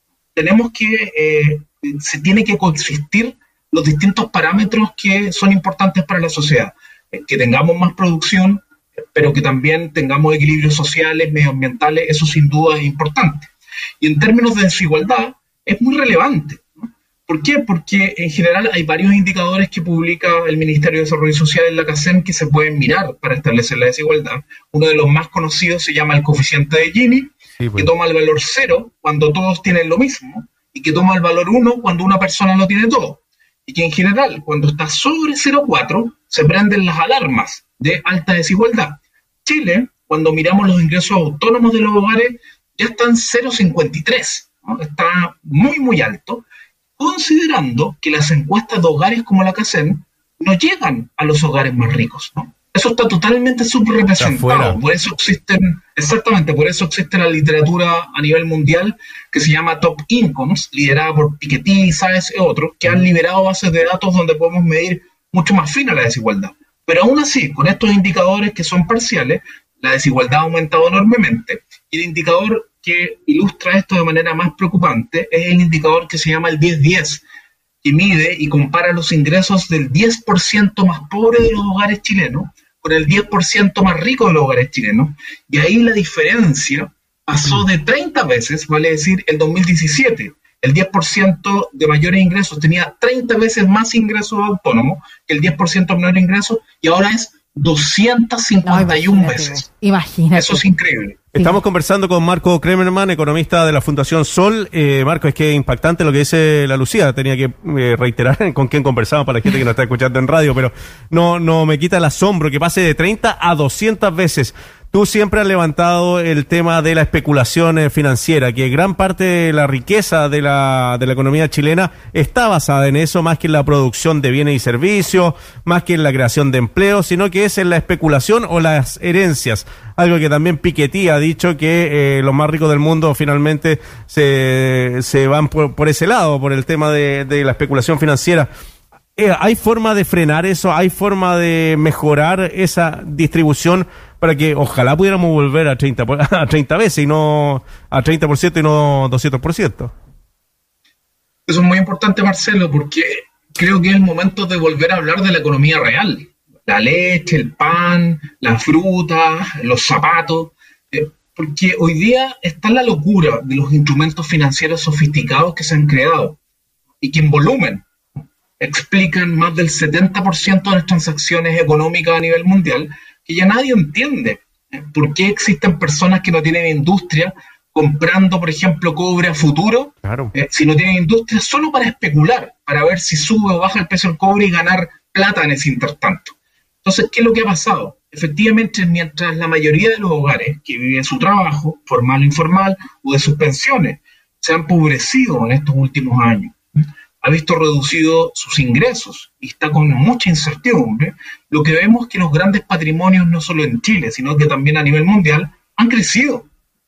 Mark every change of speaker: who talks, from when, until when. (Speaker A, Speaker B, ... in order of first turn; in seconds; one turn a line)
Speaker A: 0.3-46.4
Speaker B: 27.6-27.9
Speaker A: 47.0-77.2
Speaker B: 54.2-54.8
Speaker A: 77.8-99.7
Speaker C: 98.6-100.6
Speaker A: 100.3-101.2
Speaker B: 101.3-138.5
Speaker B: 139.2-149.9
Speaker A: 151.5-166.4
Speaker A: 167.0-167.9
Speaker A: 168.6-196.6
Speaker B: 180.0-180.3
Speaker A: 197.2-206.5